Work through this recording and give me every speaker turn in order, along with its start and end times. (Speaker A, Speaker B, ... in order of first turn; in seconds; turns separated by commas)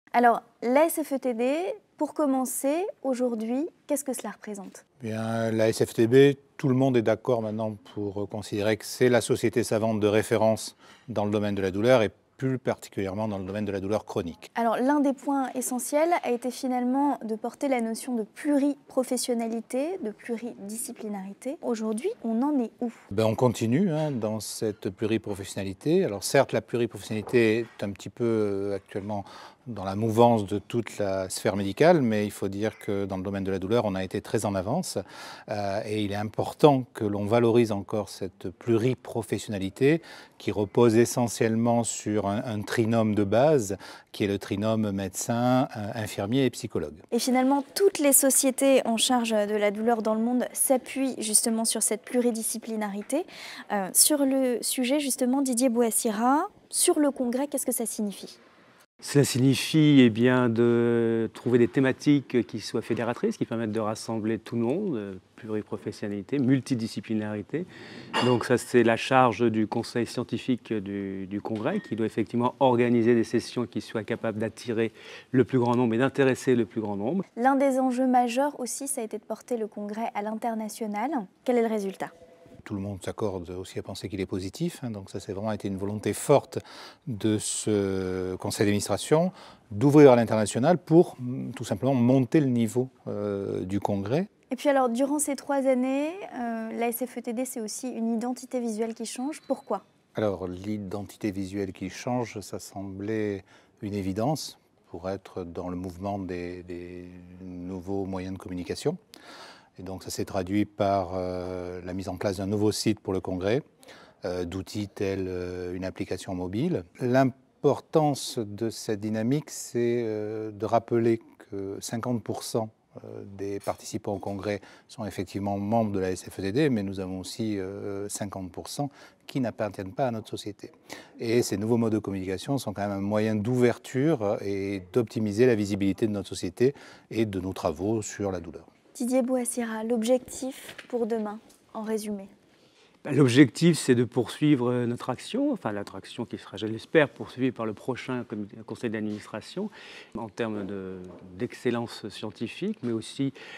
Speaker A: 0.1-4.8, Speaker B: 5.0-14.5, Speaker A: 14.6-23.1, Speaker B: 23.1-47.0, Speaker A: 47.1-58.4, Speaker C: 59.0-67.7, Speaker C: 68.2-77.2, Speaker A: 77.4-82.1, Speaker B: 82.6-94.3, Speaker A: 94.5-99.8, Speaker B: 100.2-109.0, Speaker B: 109.8-113.6, Speaker B: 114.2-138.7, Speaker A: 138.9-142.3, Speaker C: 143.1-153.3